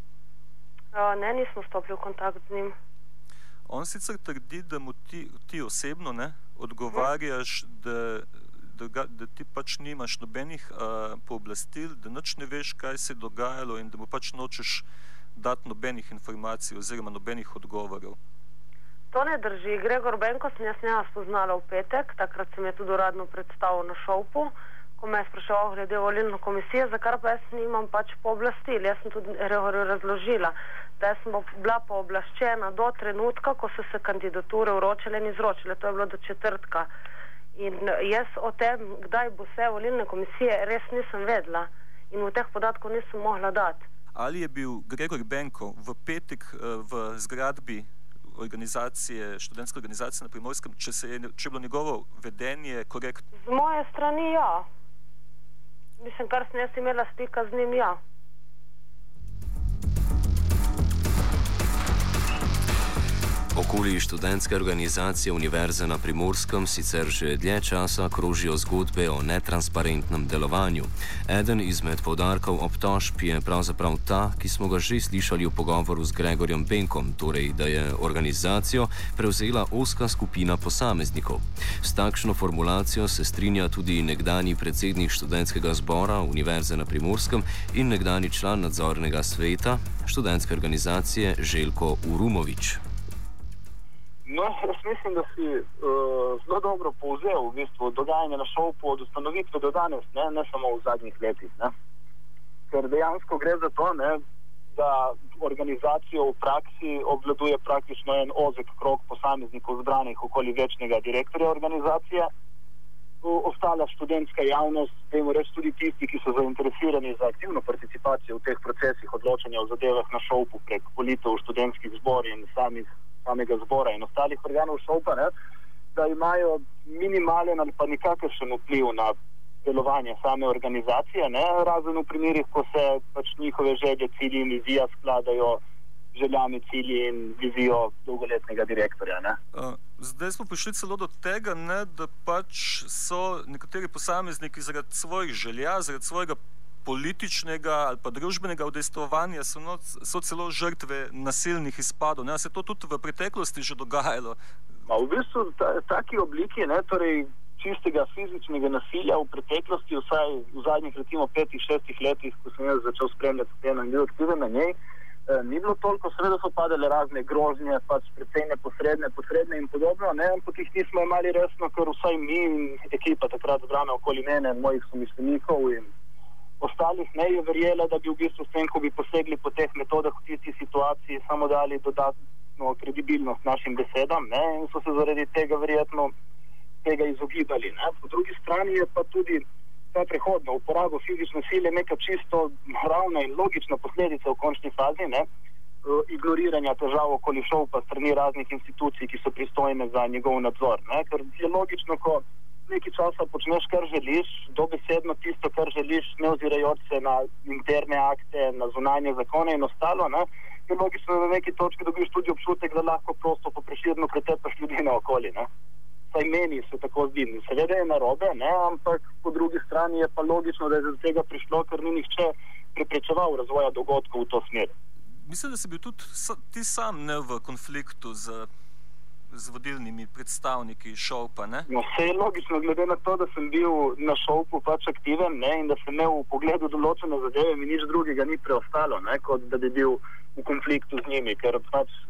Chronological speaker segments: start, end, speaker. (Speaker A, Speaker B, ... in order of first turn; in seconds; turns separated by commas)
Speaker A: 0.9-2.8, Speaker B: 3.7-18.2, Speaker A: 19.1-36.9, Speaker A: 37.5-43.9, Speaker B: 44.1-53.2, Speaker A: 53.4-54.7, Speaker A: 56.0-58.0, Speaker C: 63.5-92.8, Speaker D: 94.2-101.7, Speaker D: 102.7-104.2, Speaker D: 104.8-112.3, Speaker D: 113.2-125.3, Speaker D: 126.0-135.6, Speaker D: 136.1-139.4, Speaker B: 139.5-154.4, Speaker D: 154.9-164.8, Speaker D: 165.3-175.9, Speaker D: 176.6-186.1, Speaker D: 186.8-195.2, Speaker D: 195.8-215.5, Speaker D: 216.1-224.7, Speaker B: 225.2-228.5, Speaker B: 229.3-231.7, Speaker D: 231.7-241.9